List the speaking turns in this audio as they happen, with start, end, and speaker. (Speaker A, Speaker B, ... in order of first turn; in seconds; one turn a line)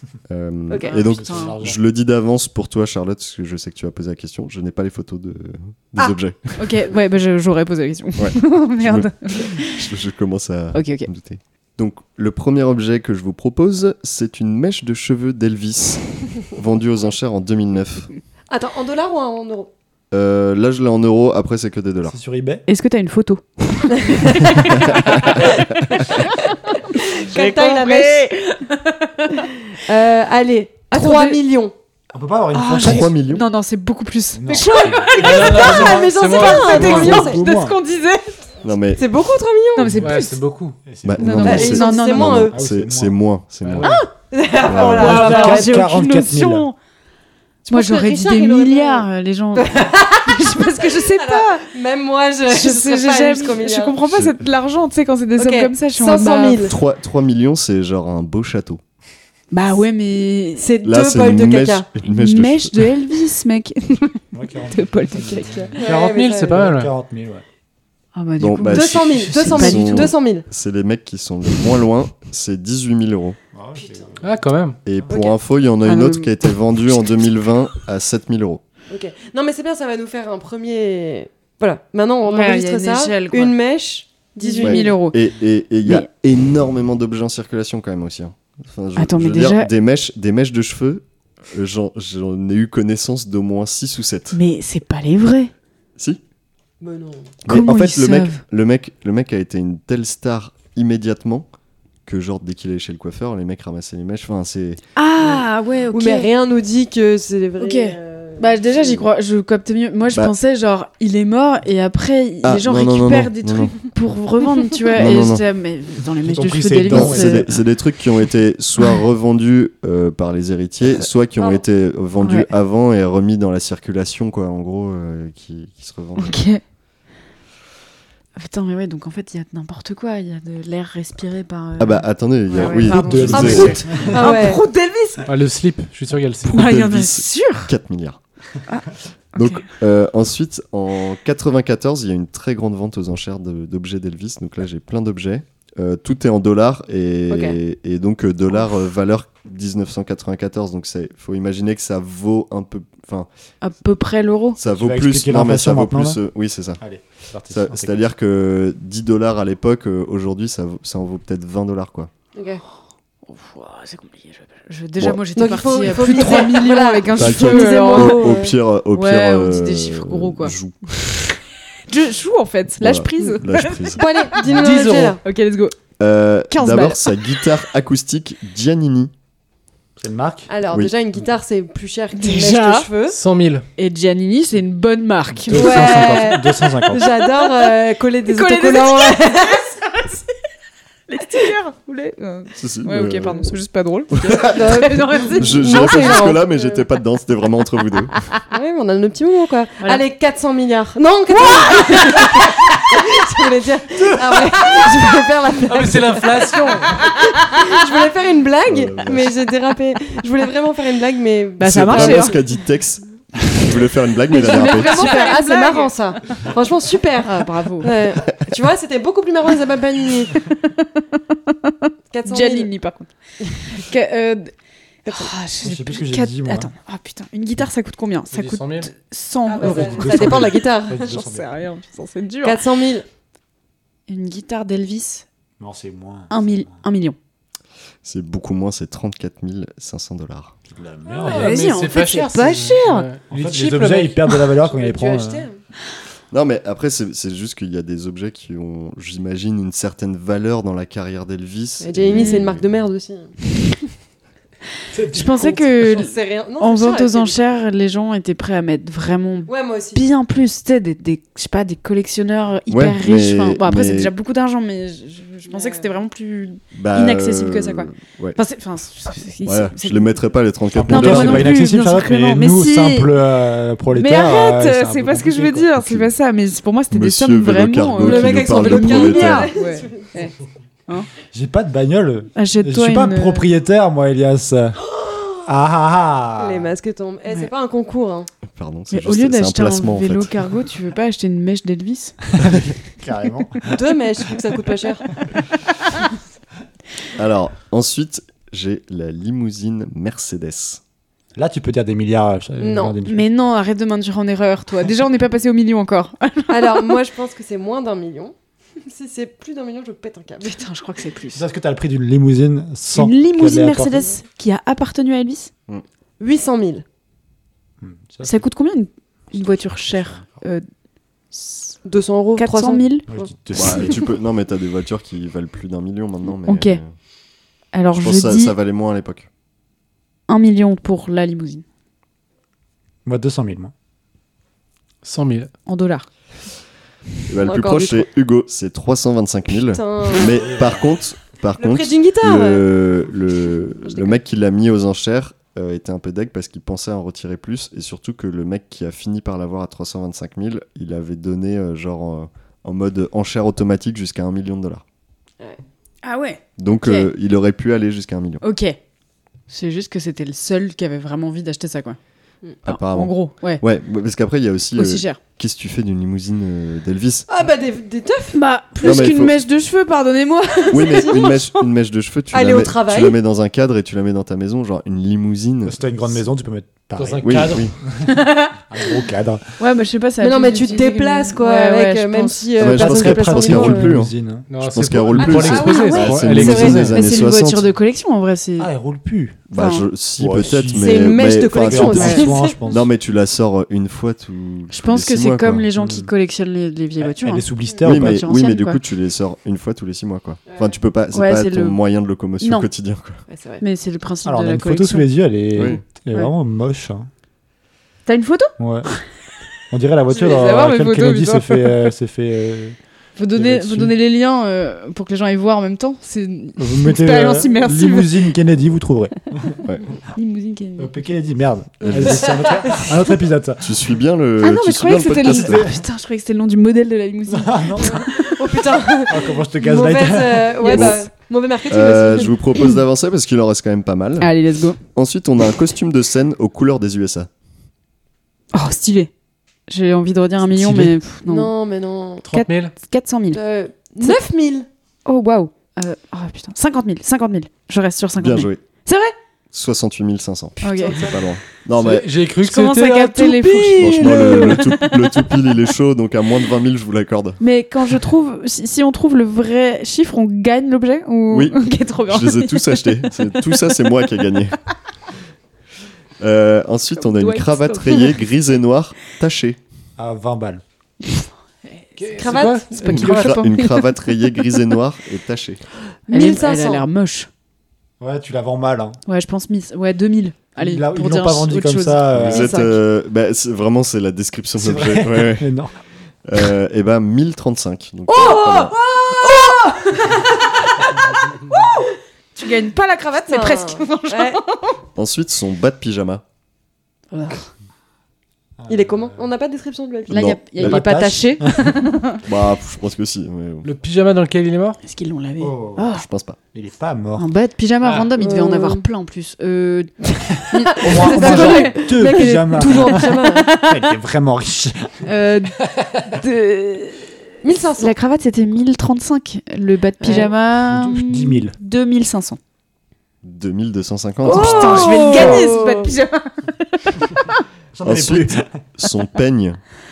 Speaker A: 0.3-6.8
Speaker B: 0.7-0.9
Speaker C: 0.8-1.6
Speaker D: 0.9-1.8
Speaker C: 6.0-9.8
Speaker A: 8.2-18.1
Speaker C: 10.7-11.1
Speaker B: 18.5-19.7
Speaker A: 20.1-22.2
Speaker D: 22.1-22.6
Speaker C: 22.7-29.5
Speaker B: 24.1-24.3
Speaker A: 24.7-25.1
Speaker B: 26.9-28.3
Speaker B: 29.9-31.7
Speaker C: 30.9-31.4
Speaker D: 32.1-33.1
Speaker C: 32.5-38.4
Speaker A: 32.8-33.5
Speaker D: 34.3-37.8
Speaker B: 34.6-37.4
Speaker E: 35.1-37.3
Speaker A: 38.6-39.1
Speaker B: 39.0-40.0
Speaker C: 39.8-40.4
Speaker E: 40.0-40.8
Speaker D: 40.9-43.2
Speaker A: 41.0-44.0
Speaker C: 41.2-42.5
Speaker B: 41.4-42.5
Speaker E: 43.6-44.0
Speaker B: 44.2-45.7
Speaker A: 44.7-45.3
Speaker D: 44.8-46.7
Speaker C: 44.8-46.8
Speaker C: 47.7-51.7
Speaker B: 47.7-54.0
Speaker C: 52.5-56.7
Speaker A: 54.1-54.4
Speaker B: 55.4-56.7
Speaker A: 56.6-58.8
Speaker C: 59.5-60.7
Speaker B: 60.6-61.9
Speaker A: 60.8-62.9
Speaker C: 62.1-65.7
Speaker D: 64.3-67.4
Speaker B: 65.7-66.7
Speaker E: 65.8-66.9
Speaker C: 68.2-70.1
Speaker A: 68.4-73.4
Speaker B: 68.7-70.5
Speaker D: 73.5-74.5
Speaker B: 73.8-74.1
Speaker E: 74.2-74.8
Speaker A: 74.9-78.6
Speaker B: 75.1-75.4
Speaker C: 75.8-77.1
Speaker B: 78.9-85.0
Speaker C: 82.2-83.6
Speaker C: 84.4-85.2
Speaker A: 84.6-94.4
Speaker C: 89.0-89.7
Speaker C: 94.3-95.5
Speaker B: 96.8-97.3
Speaker A: 97.5-101.5
Speaker C: 97.5-98.4
Speaker A: 102.1-104.8
Speaker C: 105.0-106.3
Speaker B: 105.2-109.0
Speaker C: 107.6-117.5
Speaker A: 112.4-113.8
Speaker A: 115.0-115.4
Speaker D: 116.2-117.6
Speaker A: 116.9-126.4
Speaker B: 121.4-121.6
Speaker C: 122.2-122.5
Speaker C: 126.2-126.6
Speaker C: 128.4-135.2
Speaker A: 131.8-134.1
Speaker B: 132.5-134.6
Speaker D: 132.8-134.3
Speaker E: 135.3-136.6
Speaker A: 136.4-138.2
Speaker C: 136.5-137.7
Speaker C: 138.7-139.7
Speaker A: 139.3-153.3
Speaker B: 147.3-147.6
Speaker C: 153.6-154.6
Speaker A: 154.6-156.8
Speaker D: 154.7-156.2
Speaker D: 156.8-158.0
Speaker A: 157.5-162.1
Speaker B: 162.3-162.6
Speaker C: 163.3-168.4
Speaker B: 165.3-168.6
Speaker A: 167.1-171.2
Speaker C: 168.9-170.5
Speaker C: 171.9-175.8
Speaker A: 172.8-174.0
Speaker B: 173.9-175.2
Speaker E: 174.6-175.1
Speaker A: 176.0-179.1
Speaker C: 176.5-177.1
Speaker D: 180.0-180.5
Speaker B: 180.5-183.2
Speaker A: 180.7-181.2
Speaker C: 182.2-182.9
Speaker E: 183.1-183.7
Speaker C: 183.8-187.6
Speaker D: 185.5-187.1
Speaker B: 185.5-189.7
Speaker C: 188.3-190.3
Speaker C: 191.1-196.1
Speaker A: 192.6-193.5
Speaker A: 194.1-198.1
Speaker B: 194.4-196.8
Speaker B: 198.5-212.4
Speaker C: 201.3-202.2
Speaker E: 205.7-207.0
Speaker A: 208.7-209.3
Speaker C: 211.6-212.4
Speaker A: 211.6-215.3
Speaker C: 214.3-215.9
Speaker B: 214.3-220.4
Speaker C: 217.2-217.9
Speaker B: 222.1-222.8
Speaker C: 222.2-224.5
Speaker C: 225.1-232.6
Speaker D: 225.6-226.7
Speaker E: 228.3-228.9
Speaker B: 229.5-231.2
Speaker D: 229.6-231.5
Speaker B: 232.4-233.1
Speaker C: 234.1-235.2
Speaker D: 235.6-236.8
Speaker C: 236.3-237.2
Speaker A: 238.0-240.6
Speaker D: 240.7-241.6
Speaker B: 241.1-241.4
Speaker E: 241.2-244.5
Speaker C: 241.2-243.1
Speaker D: 243.3-245.5
Speaker B: 244.6-245.6
Speaker A: 246.3-252.7
Speaker B: 251.8-253.3
Speaker C: 252.1-252.4
Speaker C: 255.1-270.2
Speaker B: 255.1-257.4
Speaker B: 259.5-260.0
Speaker A: 262.7-264.1
Speaker B: 265.5-266.0
Speaker A: 266.7-268.4
Speaker A: 269.4-271.6
Speaker D: 270.7-275.8
Speaker C: 270.9-273.1
Speaker C: 273.9-280.3
Speaker A: 276.9-279.5
Speaker B: 278.0-280.2
Speaker D: 281.3-284.8
Speaker C: 282.4-283.5
Speaker D: 285.4-286.7
Speaker B: 286.4-288.3
Speaker A: 288.5-290.4
Speaker C: 288.9-292.2
Speaker D: 292.4-293.8
Speaker B: 293.7-295.1
Speaker A: 297.1-300.8
Speaker D: 301.4-303.3
Speaker B: 302.6-303.0
Speaker C: 303.1-307.0
Speaker B: 306.5-308.3
Speaker B: 308.9-310.6
Speaker C: 310.4-311.4
Speaker D: 311.3-314.0
Speaker C: 312.9-315.5
Speaker B: 316.2-316.8
Speaker D: 317.8-318.4
Speaker C: 318.2-320.6
Speaker D: 319.3-320.4
Speaker C: 321.3-321.8
Speaker B: 321.9-323.9
Speaker C: 322.4-323.1
Speaker D: 323.1-324.0
Speaker A: 323.5-326.9
Speaker C: 326.5-326.8
Speaker C: 327.7-328.6
Speaker A: 327.9-329.3
Speaker C: 330.3-331.6
Speaker D: 333.1-333.7
Speaker E: 335.0-335.5
Speaker C: 335.7-336.1
Speaker A: 337.3-354.8
Speaker B: 337.4-338.1
Speaker B: 339.7-340.4
Speaker D: 340.3-340.8
Speaker B: 341.6-342.6
Speaker B: 343.9-344.1
Speaker C: 356.0-357.1
Speaker A: 356.6-358.4
Speaker C: 358.4-358.8
Speaker C: 359.5-362.0
Speaker A: 362.6-367.3
Speaker C: 362.6-363.6
Speaker C: 364.8-365.2
Speaker B: 367.3-369.2
Speaker C: 368.3-371.5
Speaker A: 368.8-369.4
Speaker B: 370.7-371.5
Speaker A: 370.7-376.2
Speaker B: 372.3-373.2
Speaker D: 375.6-379.5
Speaker E: 377.0-377.7
Speaker A: 377.2-377.7
Speaker C: 378.1-378.6
Speaker C: 379.6-382.5
Speaker B: 380.2-383.9
Speaker A: 382.6-387.7
Speaker D: 382.6-384.5
Speaker E: 384.5-387.0
Speaker D: 385.2-385.5
Speaker B: 385.2-386.9
Speaker C: 385.5-388.7
Speaker D: 388.6-389.5
Speaker C: 389.5-389.9
Speaker A: 389.5-395.7
Speaker D: 390.2-392.9
Speaker B: 390.7-392.6
Speaker C: 391.9-392.4
Speaker C: 394.7-398.8
Speaker D: 395.8-396.1
Speaker D: 397.0-398.3
Speaker A: 397.8-403.2
Speaker B: 400.5-400.7
Speaker C: 401.1-401.8
Speaker C: 402.4-402.7
Speaker B: 403.3-403.6
Speaker C: 403.6-406.3
Speaker D: 404.2-407.1
Speaker A: 405.5-405.8
Speaker C: 408.1-409.0
Speaker D: 408.6-408.9
Speaker D: 409.7-412.8
Speaker C: 410.1-411.9
Speaker B: 410.1-410.5
Speaker C: 413.2-418.3
Speaker D: 413.3-413.9
Speaker D: 416.6-419.6
Speaker C: 420.1-420.9
Speaker D: 420.8-423.7
Speaker A: 421.8-422.7
Speaker A: 423.6-425.7
Speaker C: 424.4-428.3
Speaker D: 425.2-425.8
Speaker D: 427.3-428.3
Speaker B: 427.9-432.4
Speaker D: 429.1-430.7
Speaker C: 430.6-431.1
Speaker A: 430.7-431.0
Speaker A: 431.7-434.4
Speaker C: 434.2-434.8
Speaker A: 434.9-437.3
Speaker C: 438.5-439.1
Speaker C: 439.7-441.5
Speaker B: 441.2-442.3
Speaker E: 442.2-442.7
Speaker C: 442.3-443.4
Speaker B: 443.3-444.7
Speaker C: 445.1-449.1
Speaker A: 448.2-448.6
Speaker A: 449.5-452.1
Speaker C: 450.6-451.0
Speaker B: 450.6-451.3
Speaker E: 451.7-454.6
Speaker C: 452.4-455.2
Speaker A: 453.8-457.4
Speaker C: 457.4-463.1
Speaker A: 461.3-464.6
Speaker A: 466.2-469.6
Speaker C: 466.9-468.2
Speaker D: 470.0-470.6
Speaker C: 471.2-473.8
Speaker E: 472.0-473.4
Speaker B: 472.2-473.2
Speaker A: 472.8-475.6
Speaker B: 476.1-476.9
Speaker C: 476.1-477.3
Speaker D: 478.0-479.0
Speaker C: 479.1-482.2
Speaker D: 480.6-482.5
Speaker A: 482.2-485.5
Speaker B: 482.3-482.8
Speaker D: 484.6-485.7
Speaker A: 486.2-488.8
Speaker B: 488.1-490.5
Speaker C: 489.1-490.0
Speaker C: 492.4-494.8
Speaker B: 493.3-494.4
Speaker A: 494.9-496.2
Speaker C: 497.1-497.5
Speaker D: 498.6-499.3
Speaker B: 498.7-500.4
Speaker C: 500.1-502.2
Speaker A: 500.1-500.8
Speaker D: 500.6-501.8
Speaker A: 502.2-503.7
Speaker E: 503.6-504.8
Speaker C: 504.8-506.1
Speaker D: 505.4-505.9
Speaker A: 505.9-506.4
Speaker D: 506.5-507.3
Speaker C: 507.2-513.9
Speaker E: 507.8-508.1
Speaker B: 508.2-508.9
Speaker B: 510.5-513.6
Speaker D: 510.8-515.0
Speaker C: 515.0-517.1
Speaker B: 517.4-517.9
Speaker C: 517.8-522.4
Speaker B: 520.0-520.3
Speaker D: 520.1-521.6
Speaker A: 523.2-525.1
Speaker B: 524.3-525.9
Speaker C: 524.3-527.4
Speaker D: 525.0-525.5
Speaker D: 527.7-528.5
Speaker A: 527.8-529.6